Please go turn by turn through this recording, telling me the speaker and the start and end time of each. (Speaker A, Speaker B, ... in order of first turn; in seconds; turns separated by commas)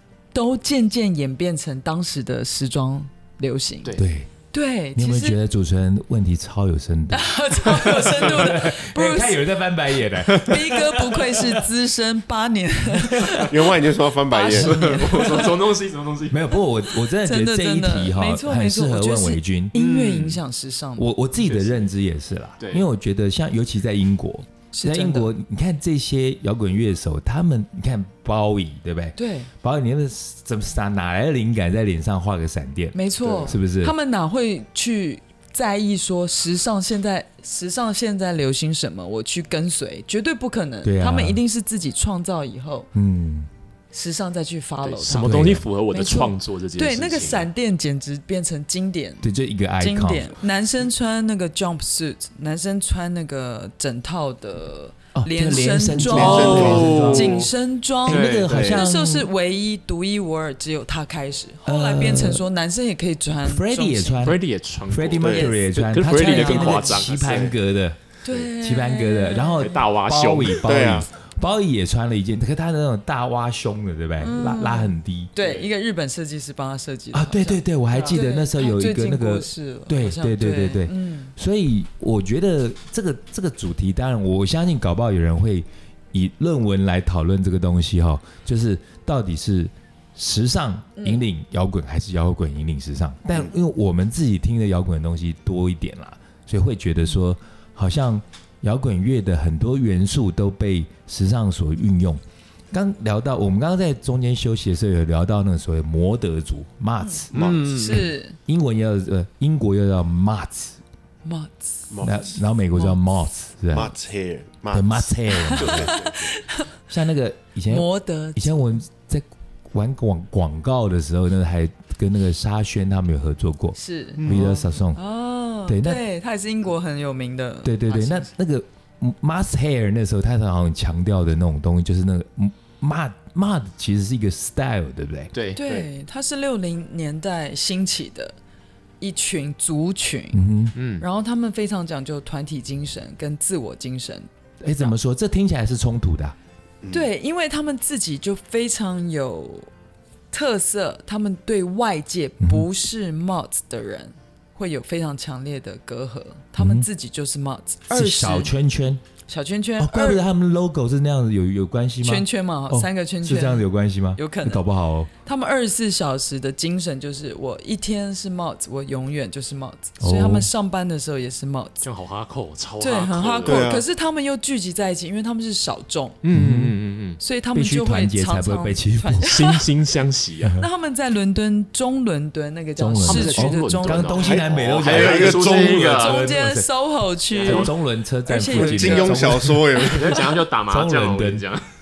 Speaker A: 0.3-4.0, Speaker B: 4.0-4.3, Speaker A: 4.5-5.4, Speaker B: 4.9-11.6, Speaker A: 7.1-9.4, Speaker A: 10.3-13.7, Speaker B: 12.9-13.5, Speaker C: 13.4-14.9, Speaker A: 14.3-15.6, Speaker D: 14.5-16.6, Speaker B: 16.3-19.8, Speaker A: 17.1-21.1, Speaker D: 19.7-20.4, Speaker B: 21.0-33.9, Speaker D: 21.4-21.9, Speaker D: 22.6-22.9, Speaker A: 24.7-25.3, Speaker A: 29.1-29.5, Speaker A: 32.9-42.9, Speaker C: 33.2-33.6, Speaker B: 40.8-41.4, Speaker B: 42.9-43.5, Speaker A: 43.9-49.3, Speaker D: 44.8-47.5, Speaker B: 45.2-45.6, Speaker B: 49.2-50.4, Speaker A: 49.8-64.3, Speaker B: 55.1-57.5, Speaker C: 56.0-57.2, Speaker D: 56.1-57.5, Speaker B: 58.0-59.3, Speaker D: 58.0-58.8, Speaker B: 61.6-62.4, Speaker B: 63.4-68.0, Speaker D: 64.2-67.5, Speaker C: 65.2-65.5, Speaker A: 65.4-66.9, Speaker A: 68.2-69.8, Speaker B: 68.6-75.3, Speaker D: 69.6-70.7, Speaker C: 70.6-71.1, Speaker A: 74.2-81.3, Speaker D: 75.4-75.7, Speaker B: 77.1-110.8, Speaker A: 91.0-91.2, Speaker A: 107.0-108.4, Speaker D: 107.3-108.1, Speaker C: 107.3-107.6, Speaker A: 111.2-111.9, Speaker C: 111.9-112.4, Speaker B: 112.0-113.9, Speaker A: 112.7-113.0, Speaker C: 113.7-116.3, Speaker B: 114.7-115.9, Speaker A: 115.3-116.7, Speaker D: 115.6-115.9, Speaker B: 116.9-125.0, Speaker A: 117.7-118.7, Speaker A: 123.7-128.3, Speaker D: 124.2-124.5, Speaker B: 125.7-126.0, Speaker B: 127.6-135.3, Speaker D: 135.3-135.6, Speaker A: 135.6-138.3, Speaker A: 139.0-140.4, Speaker B: 140.3-140.7, Speaker D: 140.7-141.0, Speaker A: 141.0-144.3, Speaker B: 144.6-146.3, Speaker C: 146.8-147.1, Speaker A: 146.9-149.7, Speaker A: 150.3-158.5, Speaker B: 152.4-152.7, Speaker B: 156.6-156.9, Speaker B: 157.9-159.0, Speaker A: 159.3-160.2, Speaker B: 159.8-165.1, Speaker A: 162.0-164.6, Speaker A: 165.2-171.8, Speaker B: 170.0-170.5, Speaker D: 171.8-173.7, Speaker A: 172.8-176.2, Speaker C: 173.4-173.8, Speaker D: 176.2-177.2, Speaker B: 176.3-176.8, Speaker A: 177.2-179.6, Speaker B: 177.5-179.4, Speaker D: 179.2-180.6, Speaker B: 180.4-180.7, Speaker A: 180.6-184.2, Speaker B: 182.8-186.7, Speaker D: 183.0-186.2, Speaker C: 184.2-186.0, Speaker A: 185.8-187.7, Speaker D: 187.3-187.7, Speaker B: 187.4-191.4, Speaker A: 188.2-189.4, Speaker C: 188.5-190.3, Speaker D: 189.8-191.6